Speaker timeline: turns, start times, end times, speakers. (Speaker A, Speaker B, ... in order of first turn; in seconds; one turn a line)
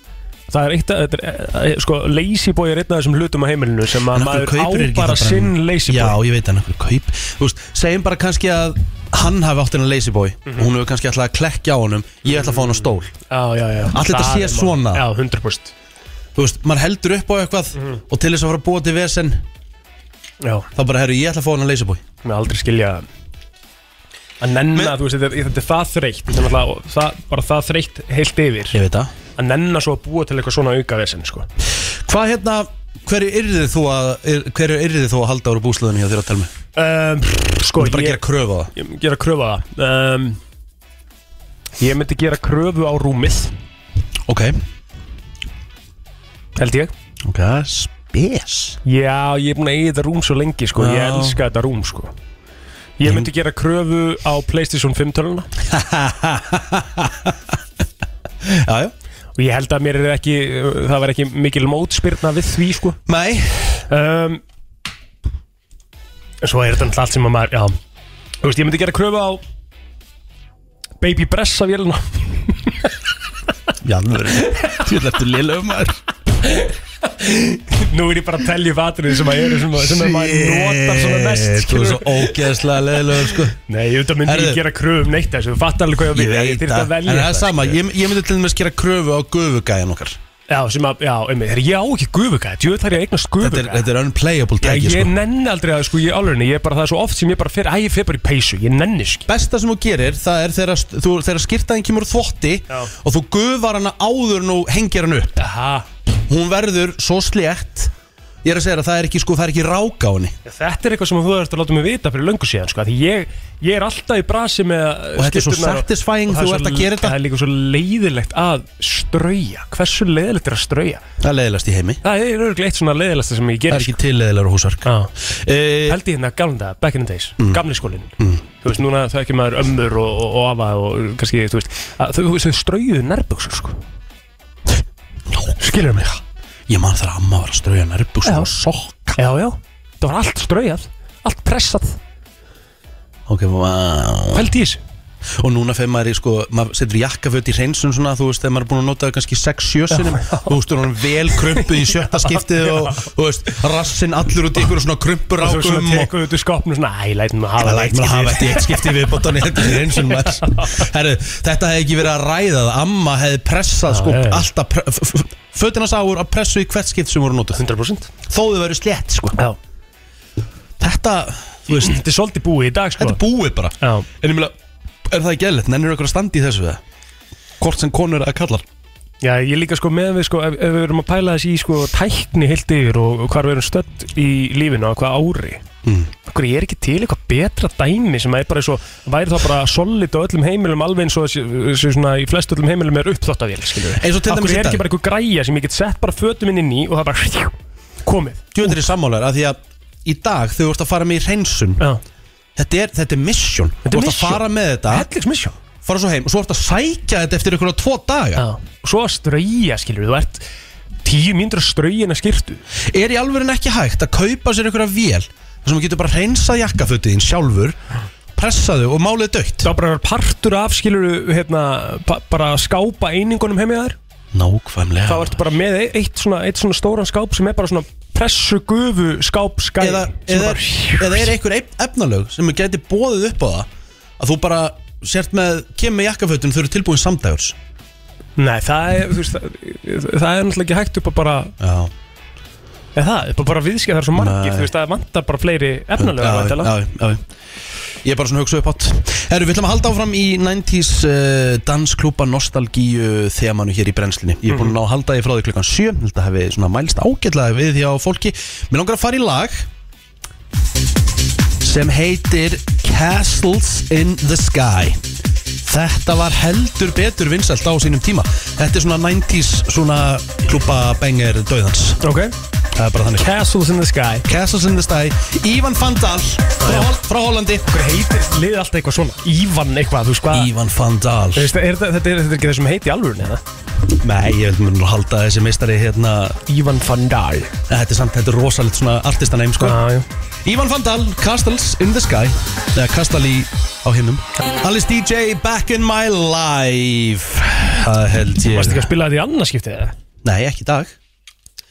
Speaker A: 0.5-6.2
Speaker B: 4.1-13.1
Speaker A: 12.2-15.7
Speaker B: 13.9-15.1
Speaker B: 16.4-19.4
Speaker A: 20.4-20.7
Speaker B: 20.7-22.0
Speaker A: 22.2-23.0
Speaker A: 24.4-28.8
Speaker B: 28.7-29.1
Speaker A: 29.4-31.5
Speaker B: 32.0-36.5
Speaker A: 36.8-38.2
Speaker B: 37.7-38.7
Speaker A: 38.7-40.4
Speaker A: 41.8-43.5
Speaker B: 44.3-44.5
Speaker A: 46.6-46.9
Speaker B: 47.2-48.8
Speaker A: 48.8-52.1
Speaker B: 50.8-51.4
Speaker A: 53.0-55.5
Speaker B: 53.0-53.3
Speaker B: 55.7-57.4
Speaker B: 58.4-58.9
Speaker A: 59.4-63.0
Speaker B: 63.0-63.8
Speaker A: 63.9-64.4
Speaker A: 66.4-67.8
Speaker A: 68.4-69.4
Speaker A: 71.0-72.9
Speaker B: 73.8-76.0
Speaker A: 77.2-82.4
Speaker B: 79.7-83.6
Speaker A: 83.7-87.8
Speaker B: 84.2-84.6
Speaker B: 86.1-90.2
Speaker A: 90.5-93.9
Speaker B: 93.4-95.1
Speaker A: 94.6-99.3
Speaker B: 99.3-105.3
Speaker A: 105.4-105.8
Speaker B: 106.3-107.9
Speaker B: 108.4-110.3
Speaker A: 110.4-121.0
Speaker B: 115.2-117.2
Speaker B: 121.2-122.0
Speaker A: 122.0-124.0
Speaker B: 123.7-126.0
Speaker A: 124.8-125.1
Speaker A: 125.9-128.1
Speaker A: 128.6-133.8
Speaker B: 135.3-135.6
Speaker A: 135.6-136.2
Speaker B: 136.7-139.2
Speaker A: 138.2-138.5
Speaker A: 139.2-142.0
Speaker B: 143.3-144.5
Speaker A: 144.3-144.8
Speaker B: 145.3-156.1
Speaker A: 149.9-150.6
Speaker A: 151.3-153.0
Speaker A: 155.4-159.0
Speaker B: 157.6-167.6
Speaker A: 159.6-160.8
Speaker A: 163.9-164.5
Speaker A: 167.6-168.1
Speaker B: 168.3-169.4
Speaker B: 170.8-172.0
Speaker A: 171.7-173.2
Speaker B: 173.0-174.5
Speaker A: 173.8-174.1
Speaker B: 175.1-176.8
Speaker B: 177.6-178.6
Speaker A: 179.2-185.6
Speaker B: 185.8-186.1
Speaker A: 186.3-197.5
Speaker B: 194.0-194.8
Speaker A: 198.0-198.8
Speaker B: 198.5-201.8
Speaker B: 202.6-205.1
Speaker A: 203.8-205.5
Speaker B: 205.8-208.4
Speaker A: 208.4-210.5
Speaker A: 211.0-212.6
Speaker B: 212.8-217.8
Speaker B: 218.3-219.7
Speaker A: 219.6-224.0
Speaker B: 224.3-225.4
Speaker A: 225.1-231.3
Speaker B: 229.8-233.7
Speaker B: 234.2-237.6
Speaker A: 238.4-241.5
Speaker B: 241.6-241.9
Speaker A: 242.9-246.7
Speaker B: 244.1-244.7
Speaker B: 246.0-247.2
Speaker B: 248.0-259.7
Speaker A: 254.5-254.8
Speaker B: 261.6-265.0
Speaker B: 265.6-272.0
Speaker A: 272.0-272.3
Speaker B: 272.7-273.3
Speaker A: 273.1-274.2
Speaker B: 274.2-277.6
Speaker A: 276.6-276.9
Speaker A: 277.7-280.5
Speaker B: 280.3-281.5
Speaker A: 281.3-283.4
Speaker B: 284.0-286.4
Speaker A: 286.5-287.5
Speaker B: 287.7-289.8
Speaker A: 289.6-290.1
Speaker B: 290.4-298.9
Speaker A: 298.5-299.9
Speaker B: 300.2-300.9